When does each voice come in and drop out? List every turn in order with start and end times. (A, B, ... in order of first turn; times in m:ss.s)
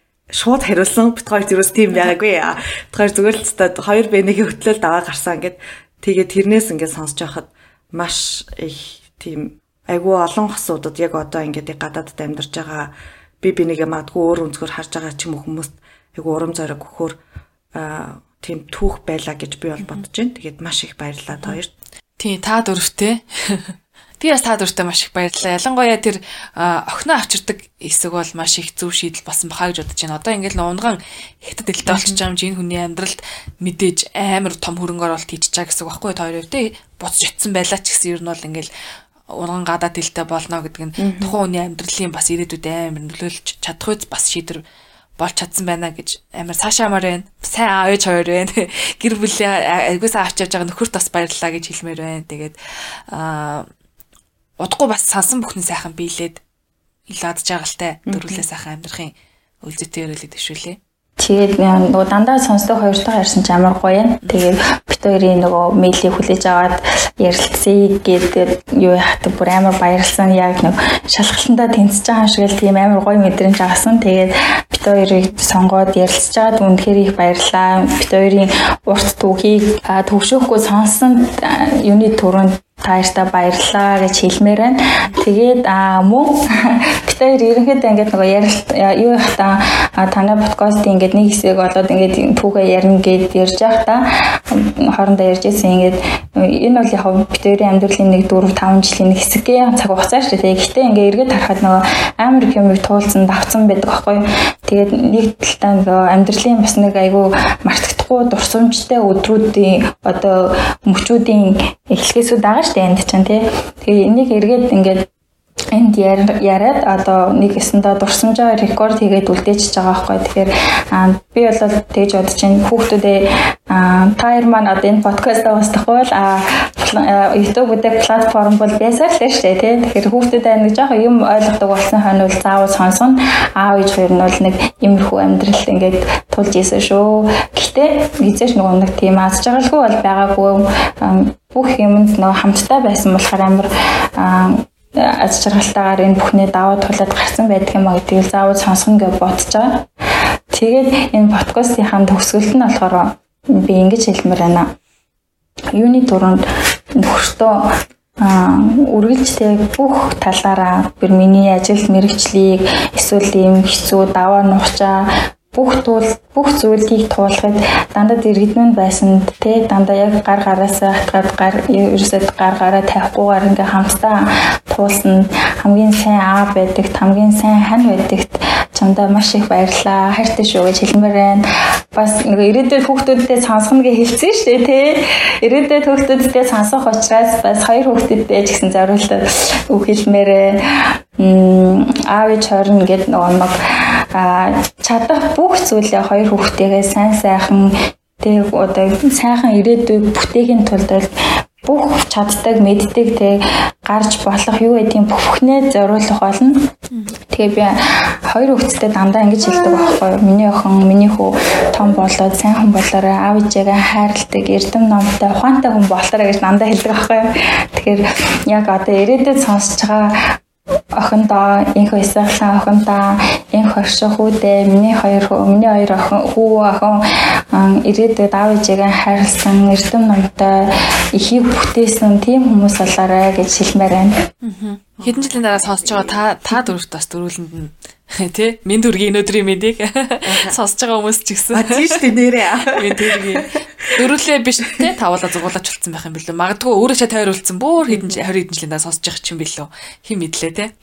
0:00.3-0:17.2 A
0:17.8-0:21.7 A
0:22.2-0:38.7 B
0:31.9-0:32.2 A
0:39.3-0:44.6 B
0:41.0-0:41.4 A
0:45.2-0:52.6 B
0:53.1-0:53.7 B
0:54.6-0:56.4 B
0:57.1-1:00.8 B
0:58.1-0:58.4 A
1:01.2-1:55.1 C
1:55.7-2:29.9 C
2:30.5-2:34.7 C
2:35.8-2:36.4 C
2:37.0-3:01.4 C
3:01.9-3:21.1 C
3:21.6-3:26.7 C
3:27.3-3:40.3 C
3:41.0-3:54.2 C
3:54.4-4:10.7 B
3:55.0-3:56.6 A
4:00.2-4:00.6 A
4:01.5-4:04.1 A
4:07.9-4:08.2 A